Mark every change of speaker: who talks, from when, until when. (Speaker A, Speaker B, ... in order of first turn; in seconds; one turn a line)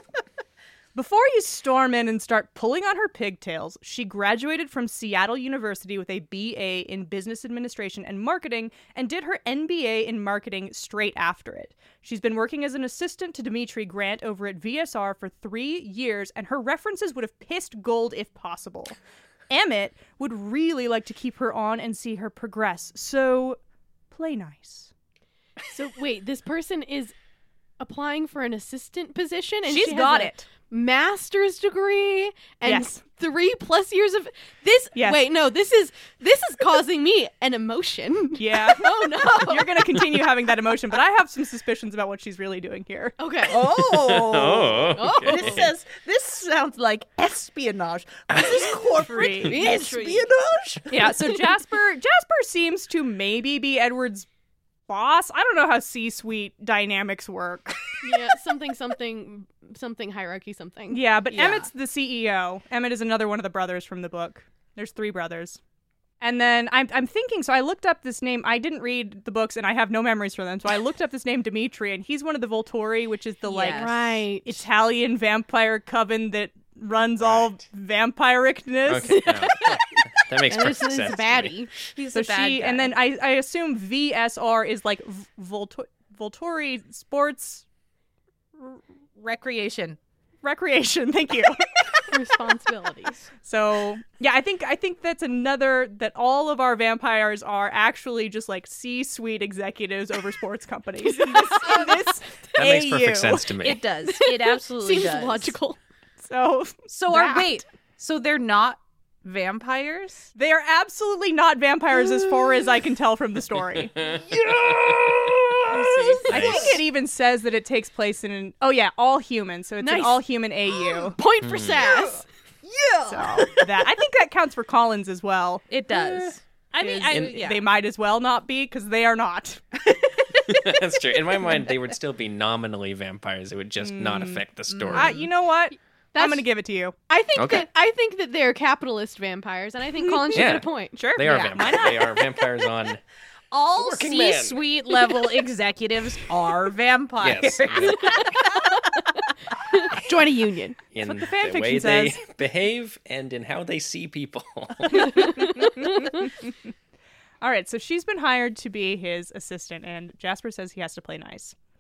Speaker A: 0.9-19.0
Speaker A: 19.5-23.6
Speaker A: 24.1-24.9
Speaker B: 25.7-27.1
Speaker B: 27.8-40.1
Speaker A: 29.7-30.5
Speaker A: 32.6-33.0
Speaker A: 35.0-35.2
Speaker A: 38.4-43.2
Speaker B: 43.2-43.7
Speaker C: 43.5-51.2
Speaker D: 43.6-45.7
Speaker B: 44.9-45.7
Speaker A: 49.0-49.5
Speaker B: 49.5-50.2
Speaker A: 50.9-54.3
Speaker A: 54.9-57.9
Speaker B: 58.0-61.1
Speaker A: 60.9-65.6
Speaker C: 61.3-61.7
Speaker A: 66.2-79.2
Speaker C: 73.4-74.0
Speaker B: 73.7-74.6
Speaker D: 78.9-81.7
Speaker B: 79.1-81.7
Speaker C: 81.9-83.0
Speaker A: 82.1-87.7
Speaker C: 88.6-90.0
Speaker A: 90.4-92.1
Speaker B: 92.1-93.3
Speaker A: 93.4-103.5
Speaker B: 101.1-102.1
Speaker D: 102.5-103.8
Speaker C: 103.6-105.5
Speaker B: 104.0-105.8
Speaker A: 106.2-107.6
Speaker C: 106.9-110.3
Speaker A: 110.3-114.1
Speaker C: 114.0-116.8
Speaker D: 114.7-115.3
Speaker A: 115.7-121.2
Speaker D: 116.3-116.8
Speaker B: 119.8-120.3
Speaker B: 120.8-122.3
Speaker D: 121.4-121.8
Speaker C: 121.8-123.8
Speaker A: 123.1-125.7
Speaker C: 125.7-127.6
Speaker A: 126.7-129.6
Speaker D: 127.1-127.4
Speaker D: 130.4-135.2
Speaker A: 133.8-136.9
Speaker C: 134.7-135.3
Speaker B: 136.1-136.5
Speaker B: 137.1-141.1
Speaker D: 137.4-137.7
Speaker A: 140.0-142.2
Speaker D: 140.3-143.0
Speaker C: 141.3-141.7
Speaker C: 143.5-148.9
Speaker D: 143.8-144.6
Speaker D: 147.2-148.2
Speaker B: 148.0-149.2
Speaker B: 149.7-150.8
Speaker D: 150.9-155.5
Speaker A: 151.0-152.2
Speaker A: 155.0-156.3
Speaker B: 155.2-156.1
Speaker A: 157.4-161.6